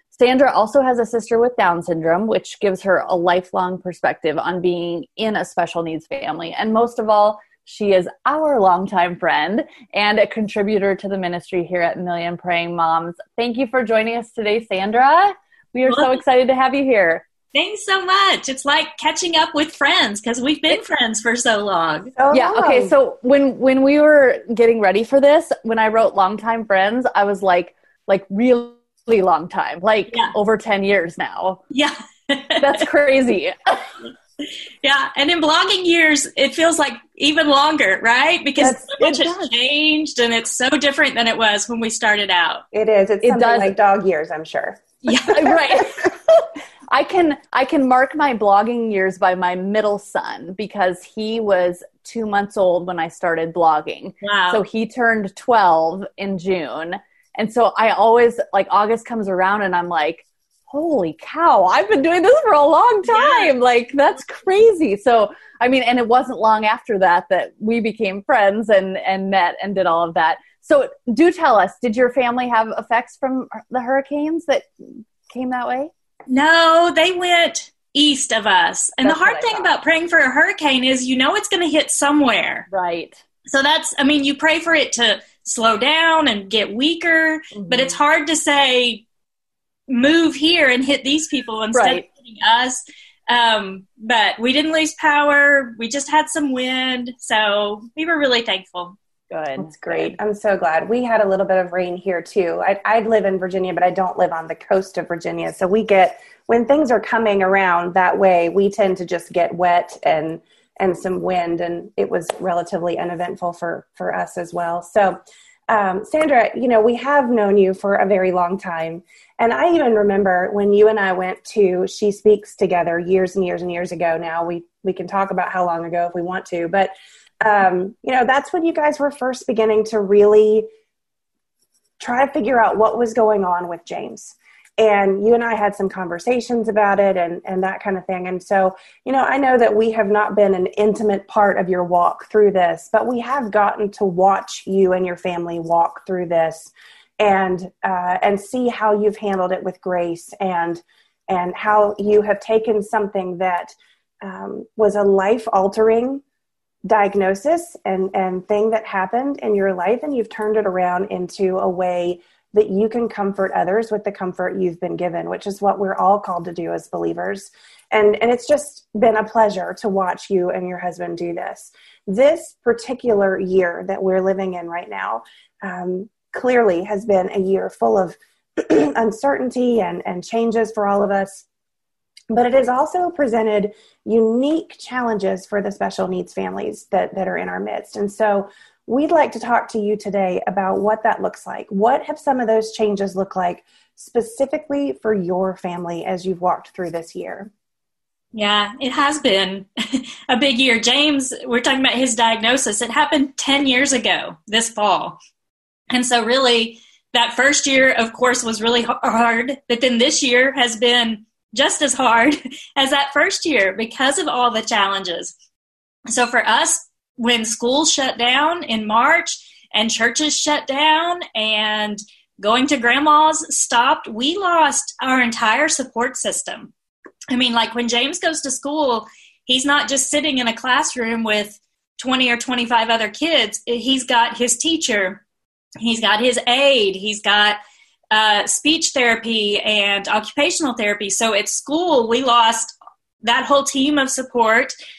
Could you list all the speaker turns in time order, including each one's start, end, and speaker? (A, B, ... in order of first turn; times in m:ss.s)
0:00.1-0:17.2 A
0:15.9-0:16.2 B
0:17.5-0:22.1 B
0:22.2-0:22.9 C
0:22.3-0:31.6 A
0:31.7-0:32.8 B
0:32.6-0:33.8 A
0:34.8-0:42.6 B
0:38.6-0:39.5 C
0:42.7-0:45.8 C
0:43.2-0:43.7 A
0:45.2-0:46.1 A
0:46.9-1:15.9 A
0:54.2-0:54.6 B
1:03.1-1:03.5 B
1:16.3-1:22.6 B
1:19.0-1:19.7 A
1:22.7-1:23.2 A
1:23.5-1:29.0 B
1:27.5-1:28.0 A
1:29.9-1:39.0 B
1:31.7-1:32.0 A
1:39.3-1:40.2 A
1:39.6-2:10.7 C
2:12.0-2:36.2 C
2:36.9-3:01.4 C
3:02.3-3:17.5 C
3:18.3-3:25.2 B
3:25.9-3:35.3 B
3:36.1-3:46.7 B
3:47.3-3:55.2 B
3:55.8-3:57.6 B
3:58.1-4:04.7 B